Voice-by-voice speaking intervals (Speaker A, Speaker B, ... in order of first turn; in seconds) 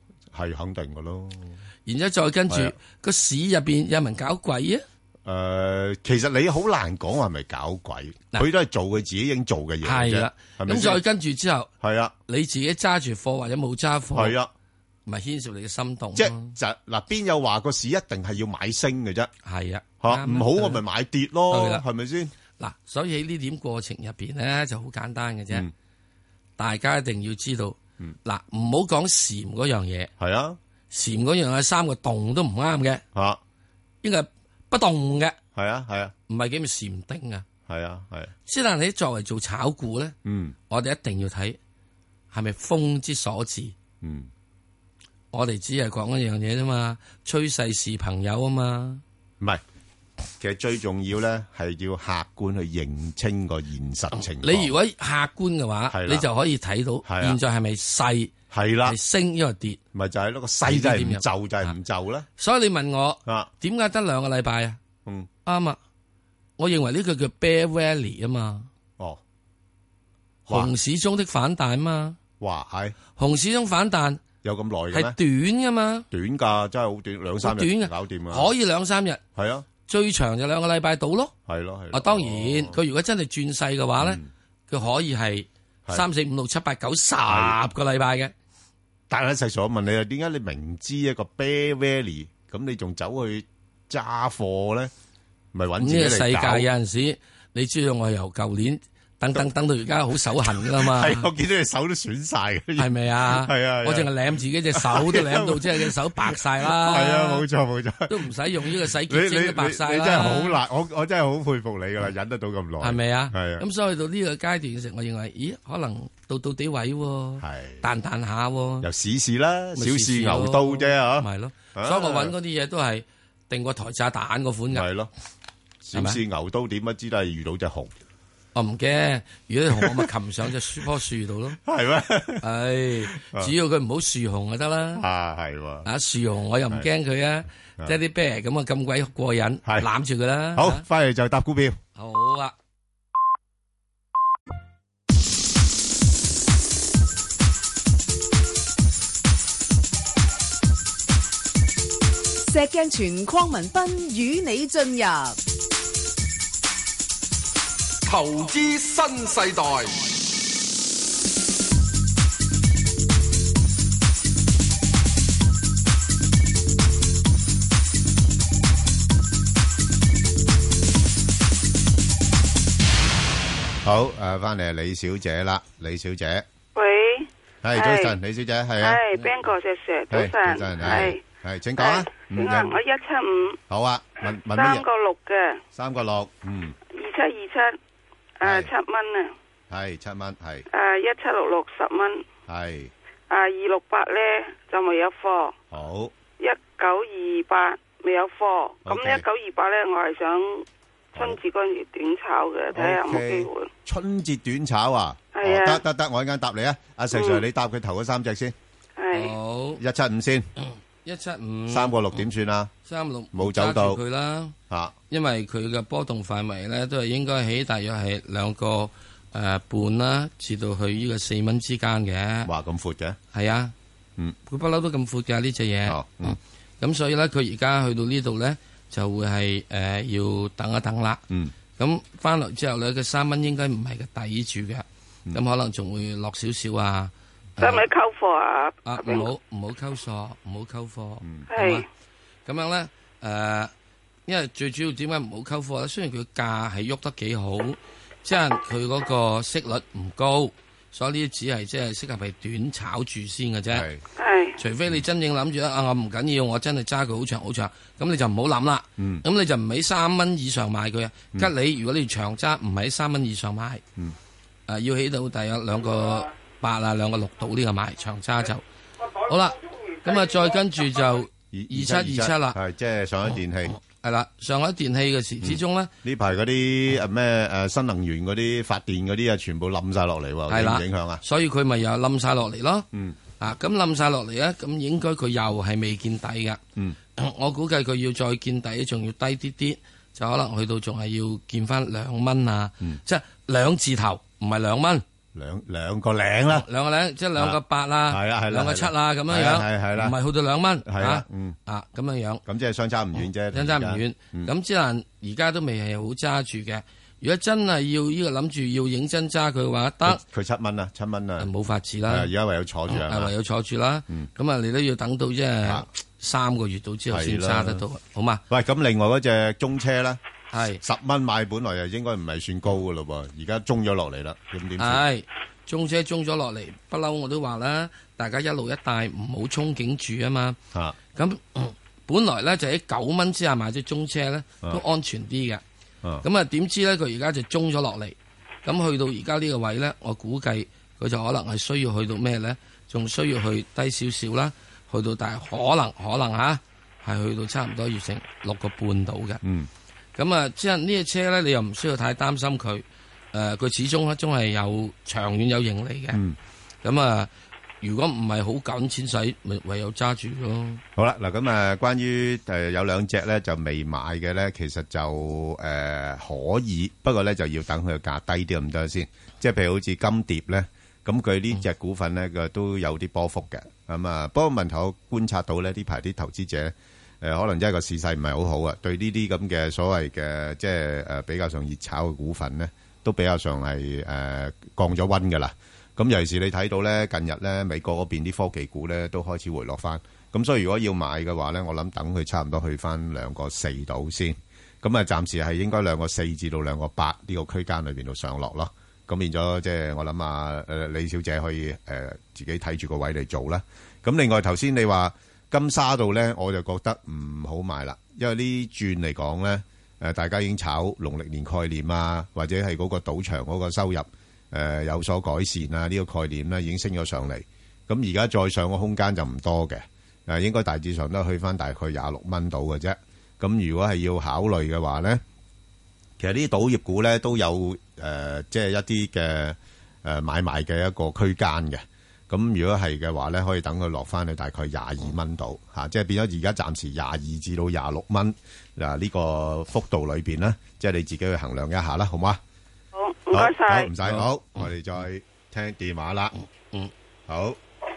Speaker A: 0.3-1.6, 2.5-2.7, 5.2-11.0, 11.8-12.1, 14.1-14.5, 16.1-19.3, 20.0-22.3, 30.2-30.6, 33.1-33.4, 35.5-36.1, 37.7-38.3, 40.2-40.5, 44.0-44.3, 50.4-54.7, 55.9-56.3, 57.0-57.4, 58.5-59.0, 59.9-62.3, 63.2-63.5, 70.5-70.7, 72.4-73.0, 74.4-75.2, 76.1-78.5, 79.3-79.7, 81.5-82.8, 84.0-84.3, 87.3-87.6, 89.1-94.9, 95.5-96.7, 100.4-104.1, 104.7-108.3, 109.1-113.6, 117.4-117.8, 118.8-122.3, 124.7-125.1, 125.8-127.9, 129.7-130.1, 131.6-132.4, 133.1-133.5, 134.9-135.9, 140.6-141.8, 173.8-176.4, 177.6-179.2, 180.1-182.7, 183.7-184.8, 185.7-186.8, 188.4-188.7, 189.7-190.6, 192.5-192.9, 195.7-196.1, 198.8-199.2, 201.1-201.4, 202.7-208.5, 209.8-210.5, 211.7-212.7, 213.3-214.0, 214.7-214.9, 222.4-223.2, 225.8-226.4, 253.7-254.0, 259.0-259.2, 271.5-273.7, 275.4-281.2, 295.3-296.6, 297.4-300.2, 300.8-301.6, 302.4-304.5, 310.0-311.5, 312.1-313.3, 317.1-317.8, 318.5-320.2, 320.8-325.0, 349.4-349.7, 360.9-425.2, 426.2-442.4, 443.3-446.3, 447.3-447.6
Speaker B: 1.9-4.8, 9.8-11.7, 12.3-14.4, 15.1-16.6, 19.4-20.8, 21.5-21.8, 22.6-25.7, 26.6-30.1, 30.9-33.0, 34.0-35.4, 36.3-37.5, 38.5-40.1, 40.7-41.6, 42.3-43.8, 45.3-49.0, 54.1-58.3, 58.8-59.8, 60.6-61.7, 62.4-64.8, 65.4-65.8, 66.6-68.7, 70.5-72.2, 73.2-74.2, 74.9-76.1, 77.4-79.2, 79.8-81.3, 81.9-88.3, 95.8-101.3, 102.8-107.4, 108.1-110.6, 112.8-118.9, 119.8-124.9, 128.5-131.6, 132.4-135.0, 135.8-140.8, 141.9-142.5, 209.1-209.8, 210.6-212.2, 212.8-214.6, 215.1-222.5, 223.3-223.7, 224.5-231.2, 231.8-237.8, 238.8-241.8, 242.4-243.7, 244.3-253.9, 254.6-263.8, 264.7-268.6, 269.2-272.6, 273.8-275.9, 280.5-282.9, 283.4-286.6, 287.1-295.0, 296.5-302.4, 303.5-310.2, 311.4-312.3, 312.9-318.4, 320.5-320.8, 324.8-330.6, 331.1-335.6, 336.2-349.4, 350.1-356.2, 356.8-357.3, 357.8-360.8
Speaker C: 152.5-155.4
Speaker D: 158.1-160.0
Speaker E: 176.7-178.2, 178.8-181.2, 181.8-183.6, 184.5-185.6, 186.9-187.8, 188.4-189.3, 190.7-192.2, 193.3-195.6, 196.4-203.7, 205.3-205.8, 207.1-207.4, 209.0-209.3, 237.6-239.3, 241.5-241.8, 254.2-254.6, 442.9-443.9